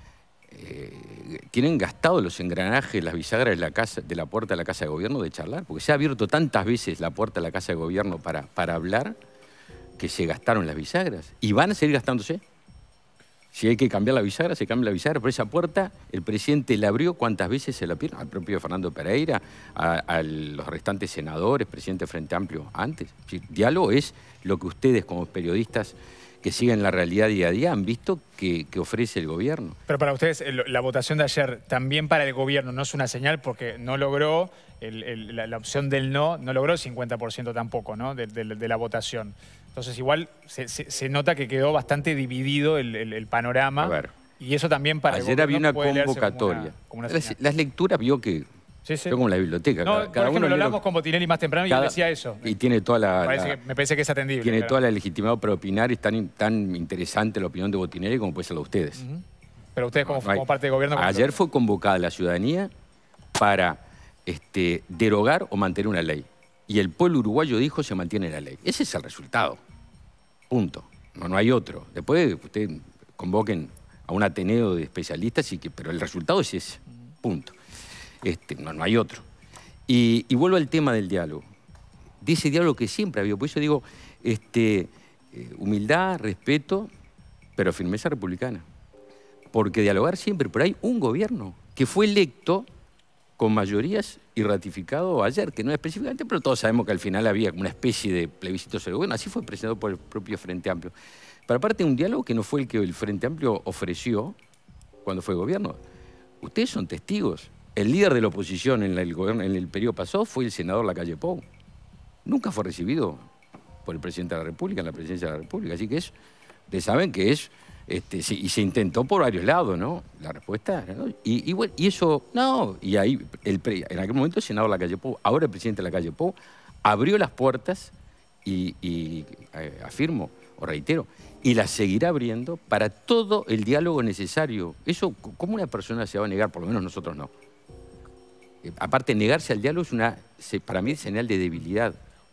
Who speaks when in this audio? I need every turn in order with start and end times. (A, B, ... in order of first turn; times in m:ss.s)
0:00.5-0:09.2 A
0:10.0-0:12.4 A
0:13.5-0:29.8 A
0:29.9-0:47.4 B
0:43.8-0:44.1 A
0:45.1-0:48.5 A
0:48.9-0:49.2 B
0:49.1-0:50.8 A
0:49.8-0:52.6 B
0:51.7-0:53.6 A
0:53.2-0:54.8 B
0:54.4-0:59.0 A
0:59.0-0:59.2 B
0:59.8-1:01.4 B
1:00.0-1:02.7 A
1:03.4-1:09.6 A
1:10.5-1:17.6 A
1:18.2-1:19.2 A
1:19.9-1:21.4 A
1:22.2-1:26.9 A
1:27.6-1:28.6 A
1:29.5-1:32.7 A
1:33.4-1:40.9 A
1:41.5-1:44.4 A
1:45.0-1:45.8 A
1:46.4-1:51.4 A
1:52.2-1:53.2 A
1:53.8-1:56.1 A
1:56.7-2:07.9 A
2:08.4-2:17.3 A
2:18.6-2:22.0 A